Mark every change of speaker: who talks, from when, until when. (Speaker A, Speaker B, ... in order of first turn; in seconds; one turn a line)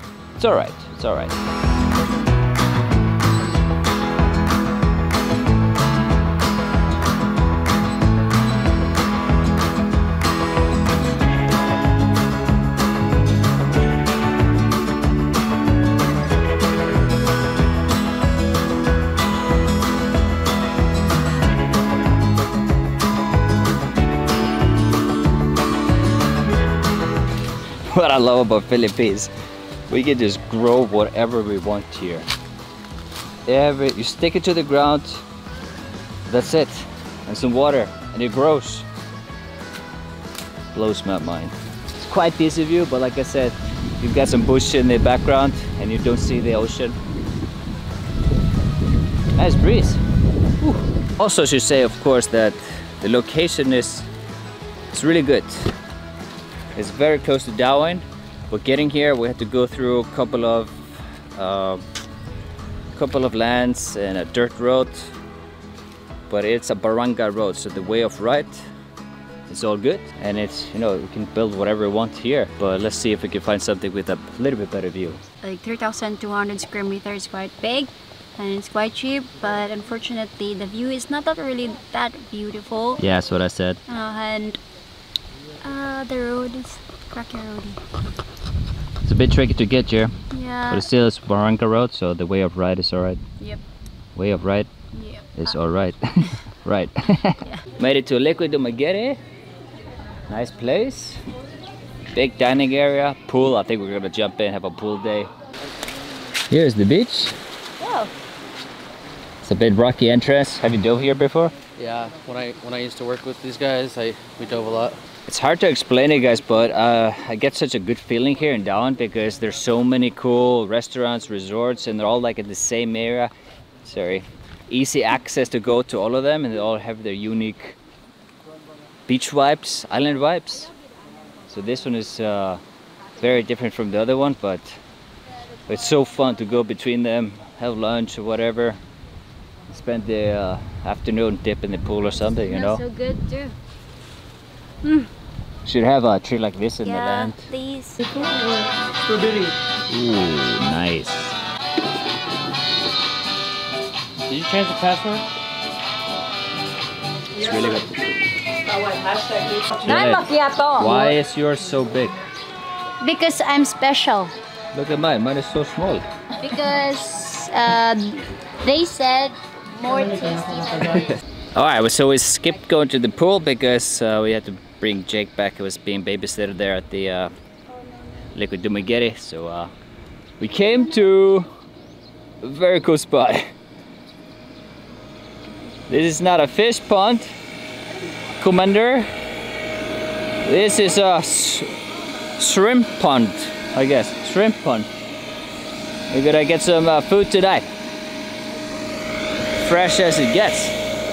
Speaker A: 0.3-1.4
Speaker A: 27.8-29.3
Speaker A: 29.9-32.3
Speaker A: 33.5-35.2
Speaker A: 36.2-38.9
Speaker A: 40.7-47.0
Speaker A: 49.3-50.0
Speaker A: 50.6-54.1
Speaker A: 54.9-55.7
Speaker A: 56.7-61.8
Speaker A: 62.9-65.1
Speaker A: 66.3-68.7
Speaker A: 69.5-75.2
Speaker B: 75.4-83.0
Speaker A: 83.0-83.8
Speaker B: 83.9-84.6
Speaker B: 85.6-87.8
Speaker A: 89.0-90.1
Speaker B: 90.3-90.8
Speaker A: 90.7-93.2
Speaker A: 94.1-94.7
Speaker B: 94.9-95.3
Speaker A: 95.3-99.2
Speaker A: 100.3-101.2
Speaker A: 102.1-105.3
Speaker A: 106.5-107.3
Speaker B: 107.8-108.1
Speaker A: 109.4-111.5
Speaker C: 111.8-115.0
Speaker A: 115.2-127.8
Speaker A: 129.1-130.7
Speaker A: 131.5-132.6
Speaker A: 133.2-134.8
Speaker A: 135.7-138.8
Speaker A: 139.7-142.8
Speaker B: 142.3-143.6
Speaker B: 144.8-145.1
Speaker A: 145.6-147.5
Speaker B: 146.8-148.0
Speaker C: 148.2-149.5
Speaker A: 149.9-151.3
Speaker C: 154.2-155.2
Speaker A: 157.3-158.3
Speaker B: 158.7-161.2
Speaker A: 159.7-162.2
Speaker B: 163.0-164.3
Speaker A: 164.7-166.0
Speaker B: 166.4-171.2
Speaker A: 171.5-177.3
Speaker A: 178.3-179.7
Speaker A: 180.4-181.5
Speaker A: 182.4-183.5
Speaker A: 185.9-187.3
Speaker A: 188.4-189.1
Speaker A: 190.4-191.7
Speaker A: 192.4-194.9
Speaker A: 196.1-197.7
Speaker A: 199.6-200.8